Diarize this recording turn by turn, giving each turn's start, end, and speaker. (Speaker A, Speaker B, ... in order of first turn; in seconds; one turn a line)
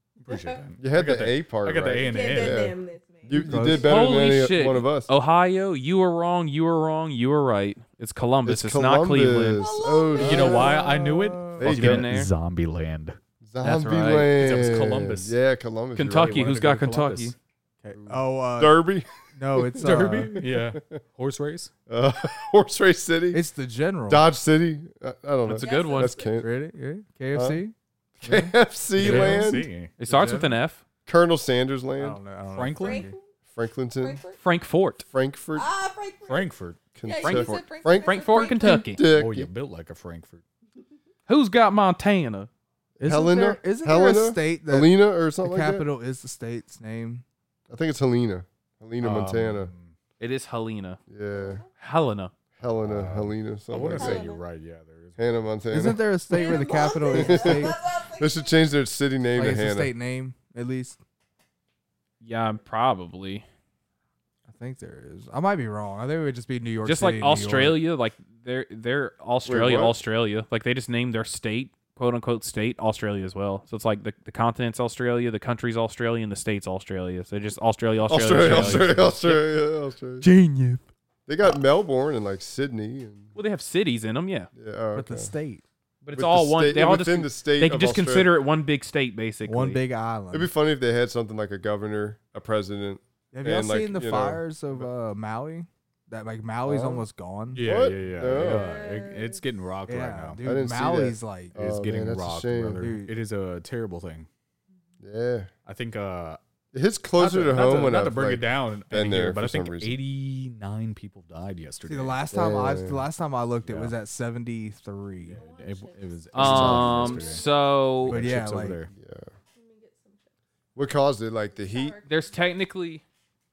Speaker A: 0.2-2.7
Speaker B: 0.3-0.6
Speaker C: 0.8-5.1
Speaker B: 2.0-4.0
Speaker D: 3.4-3.9
Speaker E: 3.8-9.7
Speaker C: 8.4-10.7
Speaker B: 9.6-11.2
Speaker D: 10.2-11.7
Speaker A: 10.2-13.2
Speaker C: 11.6-12.1
Speaker E: 11.6-12.3
Speaker C: 13.4-16.4
Speaker E: 13.6-14.3
Speaker A: 14.4-15.3
Speaker E: 15.9-17.4
Speaker A: 16.1-18.2
Speaker C: 17.9-21.0
Speaker D: 18.1-20.4
Speaker A: 19.8-21.7
Speaker C: 21.9-23.4
Speaker D: 23.3-24.2
Speaker C: 24.1-26.5
Speaker E: 25.5-26.2
Speaker B: 25.6-26.4
Speaker D: 26.4-28.6
Speaker C: 27.3-27.6
Speaker C: 28.2-29.7
Speaker A: 29.0-29.9
Speaker D: 29.1-29.5
Speaker E: 30.0-30.8
Speaker D: 30.1-30.5
Speaker C: 31.1-32.2
Speaker D: 32.0-33.2
Speaker A: 32.5-33.1
Speaker B: 32.7-33.3
Speaker C: 33.5-34.2
Speaker B: 34.0-34.4
Speaker E: 34.4-35.0
Speaker C: 35.1-35.7
Speaker B: 35.5-36.5
Speaker A: 36.3-36.8
Speaker C: 37.0-39.5
Speaker B: 37.0-38.9
Speaker E: 37.2-39.0
Speaker A: 39.0-40.4
Speaker E: 41.3-42.5
Speaker C: 43.0-45.9
Speaker D: 43.0-47.2
Speaker C: 47.7-49.7
Speaker A: 49.0-50.0
Speaker E: 50.2-51.0
Speaker C: 51.1-51.6
Speaker B: 51.3-51.7
Speaker E: 51.8-52.3
Speaker C: 52.6-54.3
Speaker A: 52.8-55.2
Speaker B: 53.9-54.5
Speaker C: 55.2-59.9
Speaker D: 55.7-57.8
Speaker B: 56.3-58.5
Speaker D: 59.4-61.0
Speaker E: 62.2-63.5
Speaker D: 64.5-67.8
Speaker E: 66.8-79.4
Speaker C: 69.5-70.0
Speaker C: 78.1-80.3
Speaker A: 78.4-78.9
Speaker D: 80.2-80.8
Speaker C: 81.3-83.3
Speaker E: 83.3-84.5
Speaker C: 84.6-85.3
Speaker D: 85.0-85.6
Speaker E: 86.0-89.8
Speaker C: 86.1-88.3
Speaker D: 89.5-90.5
Speaker C: 90.3-94.4
Speaker D: 93.3-97.7
Speaker C: 96.6-97.1
Speaker A: 97.5-100.4
Speaker C: 97.6-98.7
Speaker B: 98.3-99.4
Speaker D: 99.9-101.5
Speaker C: 100.4-102.9
Speaker A: 101.5-104.3
Speaker D: 102.8-103.1
Speaker C: 105.0-105.5
Speaker A: 105.7-106.4
Speaker C: 106.7-110.0
Speaker A: 107.2-112.2
Speaker D: 111.9-115.4
Speaker C: 112.3-113.1
Speaker A: 113.6-114.0
Speaker A: 115.2-117.5
Speaker B: 115.3-117.8
Speaker E: 116.3-118.2
Speaker C: 116.4-117.2
Speaker A: 118.0-118.9
Speaker D: 118.1-118.8
Speaker C: 118.9-119.3
Speaker B: 119.5-120.3
Speaker C: 120.8-122.0
Speaker B: 121.5-122.5
Speaker E: 122.1-123.0